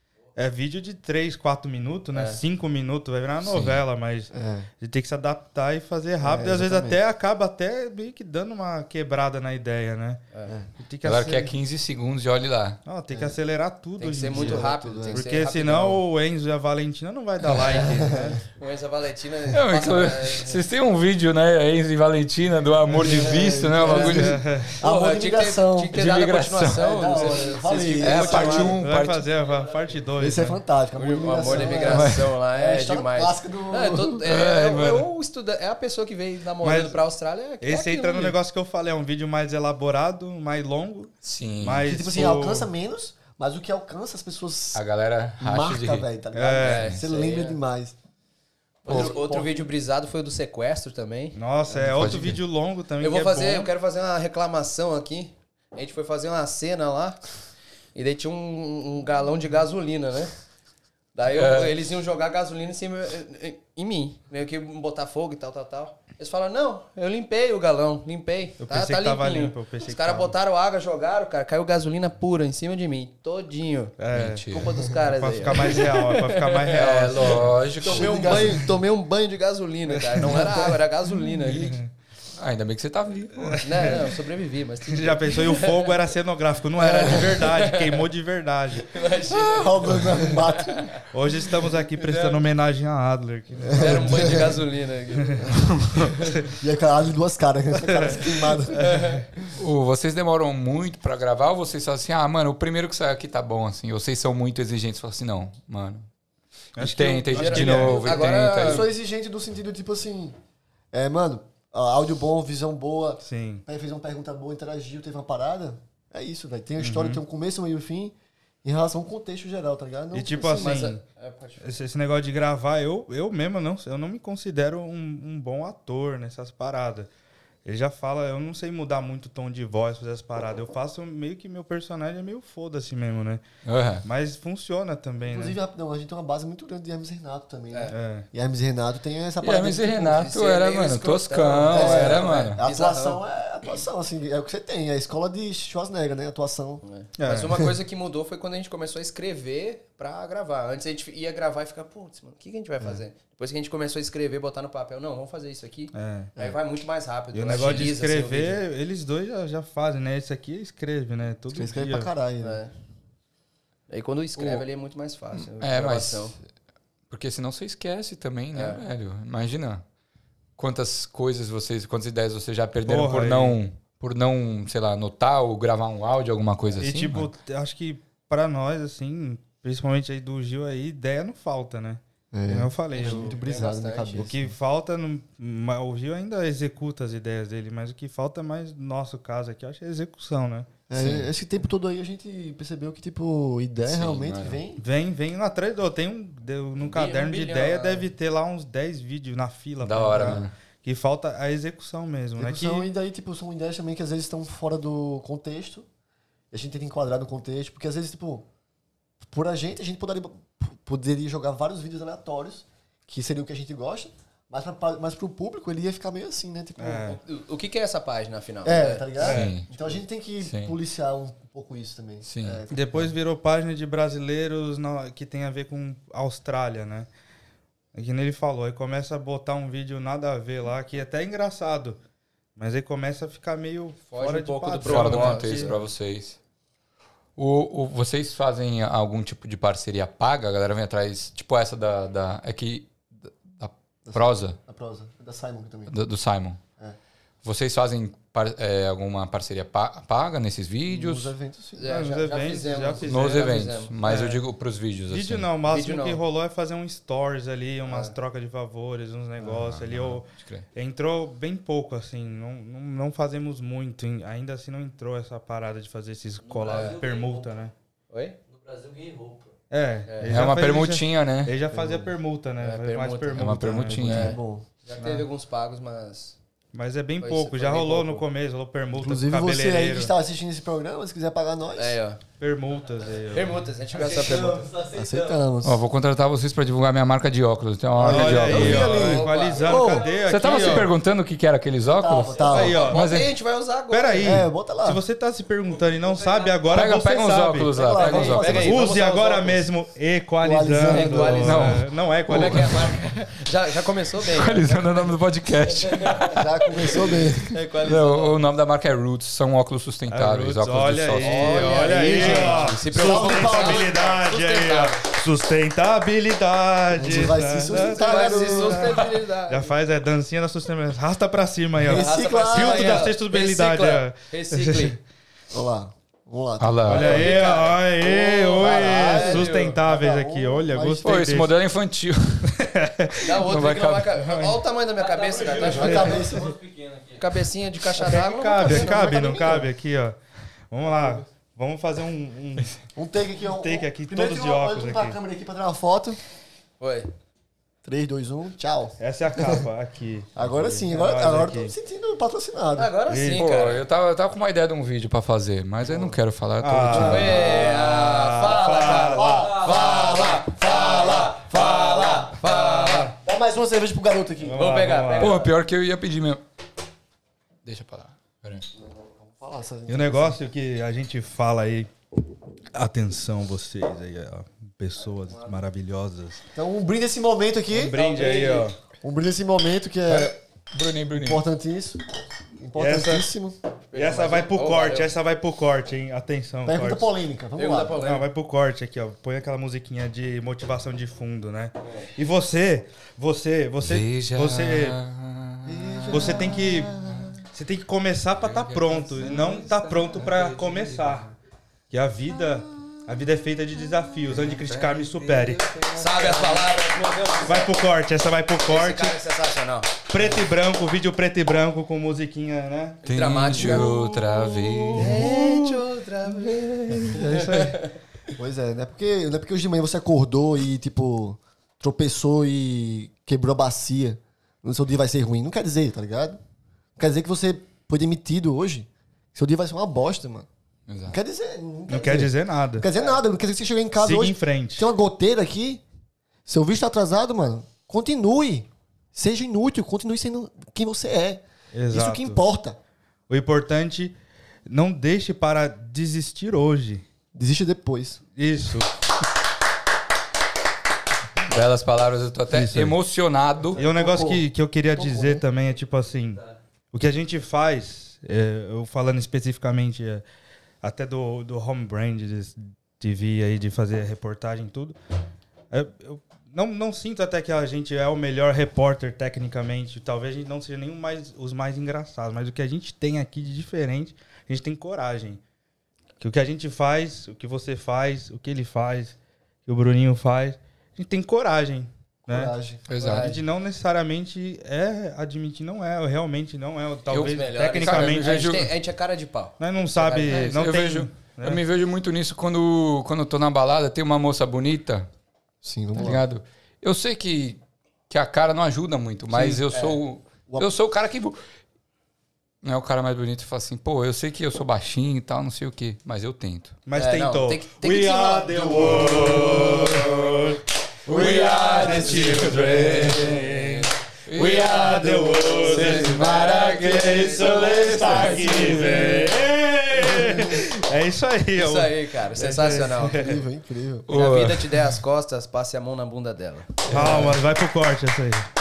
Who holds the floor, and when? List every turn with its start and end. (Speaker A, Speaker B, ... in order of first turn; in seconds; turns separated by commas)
Speaker A: 0.3-10.2, Speaker B: 2.1-2.4, Speaker C: 3.4-3.8, Speaker D: 4.3-4.7, Speaker D: 6.2-7.0, Speaker A: 10.8-11.5, Speaker C: 11.0-12.8, Speaker A: 12.8-18.4, Speaker B: 14.0-16.0, Speaker D: 14.3-15.2, Speaker C: 17.4-17.8, Speaker D: 17.8-18.4, Speaker B: 18.6-20.6, Speaker C: 19.5-24.4, Speaker A: 22.9-23.4, Speaker D: 22.9-26.0, Speaker B: 23.9-24.1, Speaker A: 23.9-24.7, Speaker B: 24.8-28.8, Speaker C: 25.9-26.8, Speaker D: 26.7-28.8, Speaker C: 28.0-29.2, Speaker A: 28.2-30.6, Speaker D: 30.2-34.3, Speaker B: 30.9-38.4, Speaker C: 31.9-32.2, Speaker C: 34.2-35.1, Speaker A: 36.6-37.0, Speaker A: 37.6-42.7, Speaker C: 41.2-41.9, Speaker D: 41.8-44.8, Speaker C: 44.7-46.1, Speaker D: 45.4-47.9, Speaker A: 46.3-46.9, Speaker B: 46.6-47.6, Speaker D: 48.8-49.5, Speaker B: 48.8-51.4, Speaker C: 48.9-49.1, Speaker A: 51.3-53.7, Speaker C: 51.8-52.4, Speaker B: 53.0-57.2, Speaker B: 57.9-60.3, Speaker B: 61.1-73.9, Speaker C: 61.3-61.8, Speaker A: 68.6-70.3, Speaker A: 74.0-77.5, Speaker C: 74.1-74.7, Speaker B: 74.5-81.8, Speaker C: 76.7-78.5, Speaker D: 77.8-78.7, Speaker A: 79.9-80.5, Speaker D: 80.2-80.7, Speaker A: 81.3-81.9, Speaker C: 82.4-84.0, Speaker A: 83.3-84.0, Speaker B: 83.6-86.0, Speaker A: 84.9-89.0, Speaker B: 86.8-88.0, Speaker D: 87.0-87.2, Speaker B: 88.9-91.0, Speaker D: 89.3-91.0, Speaker A: 91.1-94.5, Speaker D: 93.6-94.6, Speaker B: 93.7-96.3, Speaker A: 95.3-96.5, Speaker D: 95.4-98.9, Speaker A: 97.8-99.2, Speaker B: 98.7-99.2, Speaker C: 99.5-106.1, Speaker A: 106.8-108.3, Speaker C: 106.8-108.8, Speaker B: 107.3-108.9, Speaker D: 108.5-110.3, Speaker D: 110.9-120.8, Speaker A: 113.2-113.6, Speaker A: 116.8-117.2, Speaker A: 120.1-121.0, Speaker B: 120.5-121.7, Speaker A: 121.6-127.1, Speaker A: 127.6-133.4, Speaker C: 133.7-134.0, Speaker A: 134.0-135.6, Speaker D: 135.3-140.3, Speaker A: 137.9-138.3, Speaker C: 139.4-142.6, Speaker B: 140.0-143.2, Speaker D: 141.7-146.8, Speaker B: 146.8-158.6, Speaker A: 147.2-147.6, Speaker A: 155.9-156.3, Speaker A: 157.3-162.1, Speaker D: 161.5-162.6, Speaker B: 162.4-162.7, Speaker B: 163.9-166.3, Speaker C: 165.6-166.4, Speaker C: 167.1-169.8, Speaker B: 168.5-168.8, Speaker C: 170.6-177.3, Speaker A: 172.8-173.6, Speaker A: 176.8-183.4, Speaker D: 182.3-184.5, Speaker B: 182.9-184.3, Speaker A: 184.2-190.7, Speaker D: 190.9-194.8, Speaker C: 190.9-191.3, Speaker C: 193.8-194.6, Speaker A: 194.8-202.9, Speaker B: 196.8-198.1, Speaker C: 199.8-200.5, Speaker D: 202.4-205.9, Speaker D: 206.5-208.5, Speaker D: 209.2-217.2, Speaker A: 216.8-217.2, Speaker B: 217.0-219.2, Speaker D: 218.6-223.1, Speaker A: 219.2-219.6, Speaker C: 219.2-219.7, Speaker C: 220.4-220.8, Speaker C: 222.2-222.6, Speaker A: 222.7-227.1, Speaker A: 227.9-232.0, Speaker A: 232.6-235.8, Speaker B: 234.1-235.8, Speaker C: 234.8-236.4, Speaker C: 237.3-244.6, Speaker D: 244.1-245.9, Speaker C: 245.9-246.6, Speaker C: 247.4-251.3, Speaker D: 250.8-251.9, Speaker B: 251.8-253.9, Speaker A: 251.9-254.4, Speaker C: 253.0-255.5, Speaker A: 255.1-267.7, Speaker B: 255.6-256.2, Speaker B: 257.9-258.1, Speaker C: 259.4-260.6, Speaker E: 266.6-267.4, Speaker B: 266.7-267.0, Speaker B: 268.1-268.4, Speaker E: 268.5-269.5, Speaker A: 269.7-274.3, Speaker B: 270.1-270.5, Speaker C: 270.3-271.5, Speaker D: 271.7-272.1, Speaker B: 272.6-276.4, Speaker C: 273.3-274.4, Speaker D: 273.9-274.6, Speaker A: 275.0-275.3, Speaker A: 276.7-280.1, Speaker B: 277.2-278.2, Speaker D: 278.9-282.0, Speaker B: 281.8-282.2, Speaker A: 282.4-283.7, Speaker B: 283.3-284.7, Speaker E: 283.9-285.4, Speaker D: 284.8-285.8, Speaker C: 285.6-289.0, Speaker D: 287.9-290.1, Speaker A: 288.0-290.9, Speaker B: 288.5-290.9, Speaker E: 289.7-290.5, Speaker C: 290.2-293.3, Speaker D: 291.9-292.9, Speaker A: 292.4-293.1, Speaker B: 292.5-294.4, Speaker A: 293.9-302.9, Speaker D: 294.2-295.0, Speaker E: 296.1-296.5, Speaker C: 296.7-298.7, Speaker D: 297.7-299.0, Speaker B: 297.9-299.6, Speaker D: 300.4-301.5, Speaker B: 300.9-305.1, Speaker C: 301.4-303.1, Speaker C: 304.2-312.4, Speaker B: 305.9-306.3, Speaker D: 306.3-307.6, Speaker B: 307.5-308.4, Speaker A: 310.1-325.0, Speaker B: 311.2-315.1, Speaker D: 311.8-313.9, Speaker D: 316.9-319.1, Speaker B: 317.7-319.7, Speaker D: 321.8-323.1, Speaker B: 321.9-325.0, Speaker D: 325.5-327.3, Speaker C: 326.6-327.2, Speaker A: 326.9-331.5, Speaker B: 326.9-329.8, Speaker D: 328.6-331.1, Speaker C: 331.0-332.6, Speaker A: 332.5-333.3, Speaker B: 333.2-336.3, Speaker C: 333.2-334.2, Speaker A: 334.2-334.6, Speaker E: 334.9-337.2, Speaker D: 335.6-336.6, Speaker A: 335.8-336.2, Speaker B: 337.1-339.2, Speaker A: 337.9-340.1, Speaker D: 338.6-339.7, Speaker A: 340.7-342.7, Speaker D: 342.9-346.2, Speaker A: 343.6-345.2, Speaker B: 346.8-347.1, Speaker D: 347.8-349.6, Speaker A: 349.0-351.7, Speaker D: 350.4-352.9, Speaker B: 352.8-353.8, Speaker A: 353.1-353.4, Speaker C: 353.4-357.5, Speaker D: 355.8-356.2, Speaker A: 356.6-359.5, Speaker D: 356.9-357.8, Speaker B: 356.9-363.1, Speaker D: 358.5-362.4, Speaker A: 362.4-363.1, Speaker D: 363.2-364.8, Speaker A: 364.4-365.4, Speaker B: 364.5-365.5, Speaker C: 365.2-366.4, Speaker C: 367.6-368.7, Speaker D: 368.8-370.4, Speaker A: 369.9-371.9, Speaker A: 372.7-376.4, Speaker D: 376.5-378.0, Speaker A: 377.7-378.7, Speaker B: 377.9-378.7, Speaker D: 379.0-380.4, Speaker C: 380.1-381.4, Speaker D: 381.1-382.0, Speaker D: 382.6-383.6, Speaker A: 382.8-383.3, Speaker B: 383.9-385.1, Speaker A: 383.9-387.1, Speaker D: 386.6-388.0, Speaker B: 387.6-388.3, Speaker A: 388.0-395.0, Speaker C: 393.8-397.3, Speaker D: 395.6-397.3, Speaker A: 396.1-396.9, Speaker A: 397.5-401.3, Speaker C: 398.4-401.3, Speaker A: 401.9-405.7, Speaker C: 404.3-406.7, Speaker B: 405.9-407.7, Speaker A: 407.4-409.2, Speaker B: 408.6-409.9, Speaker A: 410.1-414.0, Speaker B: 413.0-417.9, Speaker C: 413.0-415.2, Speaker A: 414.9-415.9, Speaker A: 416.9-417.8, Speaker D: 418.3-426.4, Speaker D: 427.0-430.5, Speaker C: 430.9-431.2, Speaker D: 431.1-435.8, Speaker A: 431.9-432.9, Speaker A: 434.0-434.9, Speaker D: 436.4-442.8, Speaker A: 441.7-442.4, Speaker A: 443.3-444.1, Speaker A: 444.7-447.0, Speaker D: 447.3-448.2, Speaker A: 448.4-448.9, Speaker C: 451.5-453.8, Speaker A: 452.5-452.9, Speaker D: 453.7-455.4, Speaker A: 453.8-460.2, Speaker A: 460.8-465.0, Speaker A: 465.7-475.4, Speaker A: 476.2-482.5, Speaker D: 482.3-482.8, Speaker C: 482.9-483.4, Speaker B: 483.0-483.4, Speaker A: 483.1-488.7, Speaker B: 487.1-490.5, Speaker C: 487.1-488.7, Speaker A: 489.6-491.6, Speaker C: 490.2-495.1, Speaker D: 495.6-496.2, Speaker C: 495.9-501.4, Speaker B: 499.4-500.0, Speaker D: 500.5-500.7, Speaker C: 502.6-506.8, Speaker A: 506.9-523.4, Speaker B: 506.9-510.1, Speaker C: 511.1-513.5, Speaker B: 511.2-513.9, Speaker C: 514.3-519.3, Speaker B: 514.9-518.9, Speaker D: 519.9-520.7, Speaker B: 521.5-523.3, Speaker D: 523.0-524.1, Speaker C: 524.1-525.0, Speaker B: 524.1-526.9, Speaker C: 526.9-527.4, Speaker A: 526.9-528.5